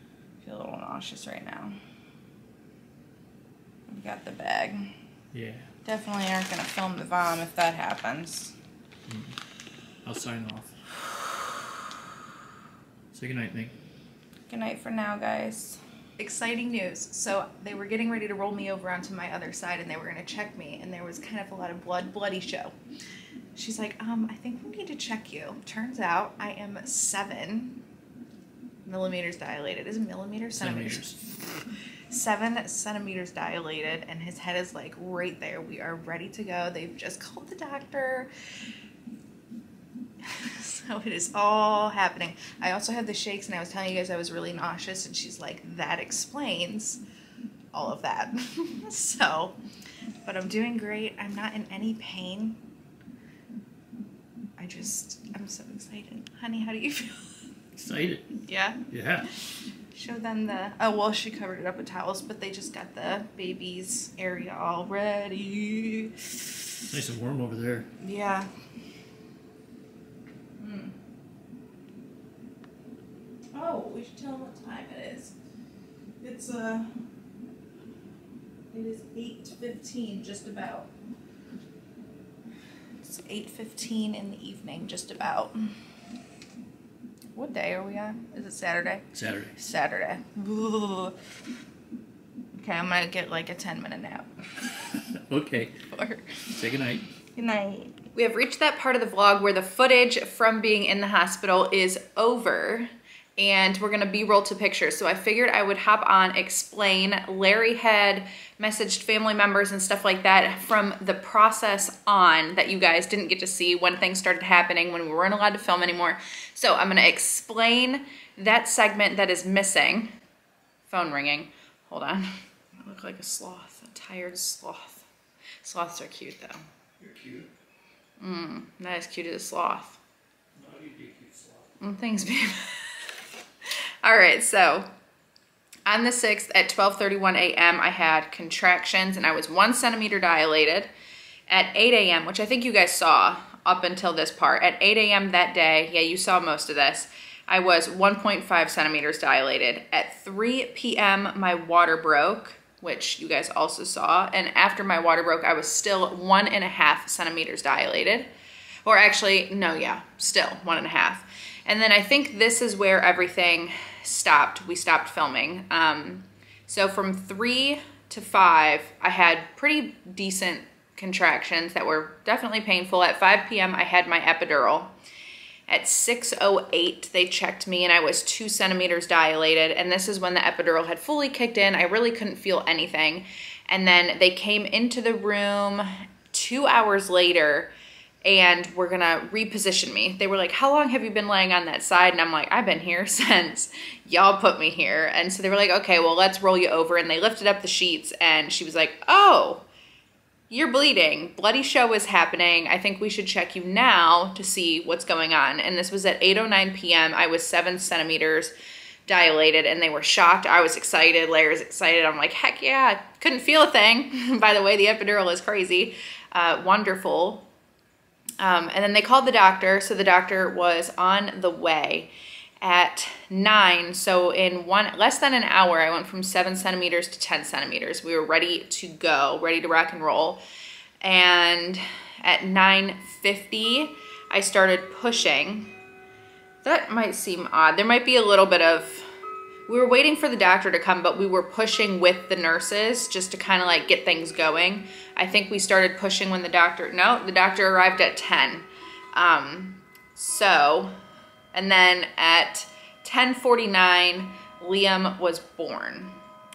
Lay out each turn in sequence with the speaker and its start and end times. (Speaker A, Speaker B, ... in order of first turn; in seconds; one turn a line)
Speaker A: 0.4-1.8
Speaker A: 3.9-4.9
Speaker B: 5.3-5.7
Speaker A: 5.8-8.5
Speaker B: 9.1-9.4
Speaker B: 10.0-10.7
Speaker B: 13.1-13.7
Speaker A: 14.5-22.7
Speaker A: 23.6-27.8
Speaker A: 28.9-31.2
Speaker B: 30.6-31.2
Speaker A: 32.1-38.3
Speaker A: 40.2-47.0
Speaker A: 47.7-49.6
Speaker A: 50.2-52.6
Speaker A: 54.6-57.3
Speaker B: 57.8-58.3
Speaker A: 58.5-58.8
Speaker B: 58.9-59.3
Speaker A: 59.9-66.3
Speaker B: 66.9-67.9
Speaker A: 68.0-68.5
Speaker A: 70.6-70.9
Speaker A: 73.5-75.3
Speaker A: 76.2-76.9
Speaker A: 78.7-80.9
Speaker A: 83.0-85.7
Speaker A: 87.3-89.1
Speaker B: 89.1-89.6
Speaker A: 89.6-91.2
Speaker A: 92.6-94.3
Speaker B: 95.1-95.7
Speaker A: 95.9-96.5
Speaker B: 96.5-97.1
Speaker A: 97.4-120.1
Speaker A: 120.9-125.1
Speaker A: 125.6-126.6
Speaker B: 127.0-127.5
Speaker A: 128.2-130.0
Speaker B: 130.6-131.8
Speaker A: 131.8-132.9
Speaker A: 134.0-134.9
Speaker A: 135.9-140.9
Speaker A: 141.5-158.3
Speaker A: 158.8-174.9
Speaker A: 175.7-187.7
Speaker A: 188.2-199.7
Speaker A: 200.5-208.5
Speaker A: 209.1-217.5
Speaker A: 218.4-230.4
Speaker A: 231.0-235.7
Speaker A: 236.6-239.1
Speaker A: 239.7-250.9
Speaker A: 251.5-256.2